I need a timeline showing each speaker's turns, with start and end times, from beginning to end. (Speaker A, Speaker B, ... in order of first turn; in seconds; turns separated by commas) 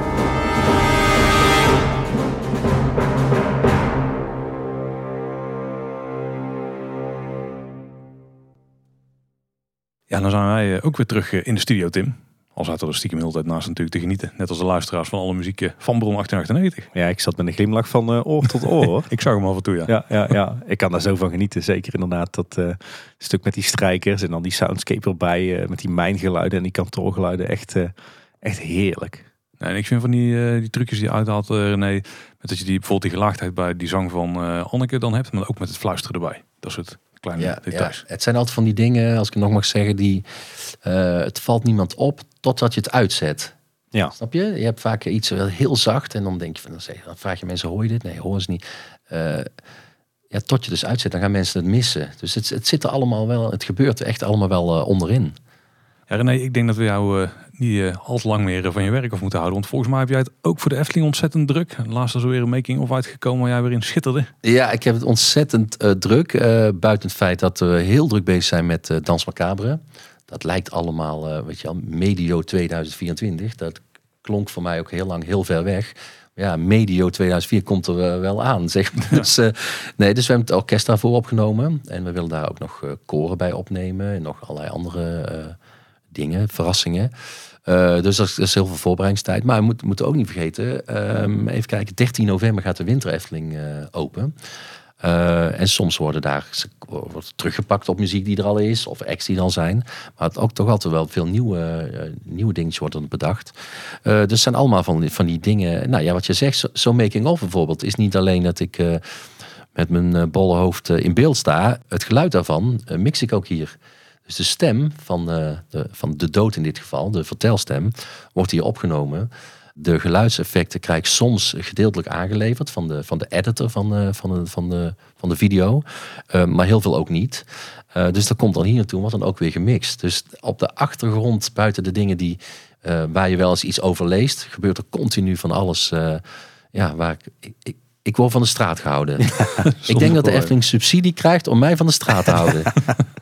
Speaker A: 10.1-16.9, Speaker B: 16.9-19.1, Speaker A: 19.1-19.9, Speaker B: 19.9-29.2, Speaker A: 29.6-38.0, Speaker C: 37.4-43.5, Speaker C: 44.2-49.5, Speaker C: 50.3-55.4, Speaker A: 56.1-64.3, Speaker C: 64.4-85.6, Speaker C: 86.1-87.1, Speaker C: 87.7-94.3, Speaker C: 95.0-109.0, Speaker C: 109.7-142.7, Speaker A: 139.8-140.5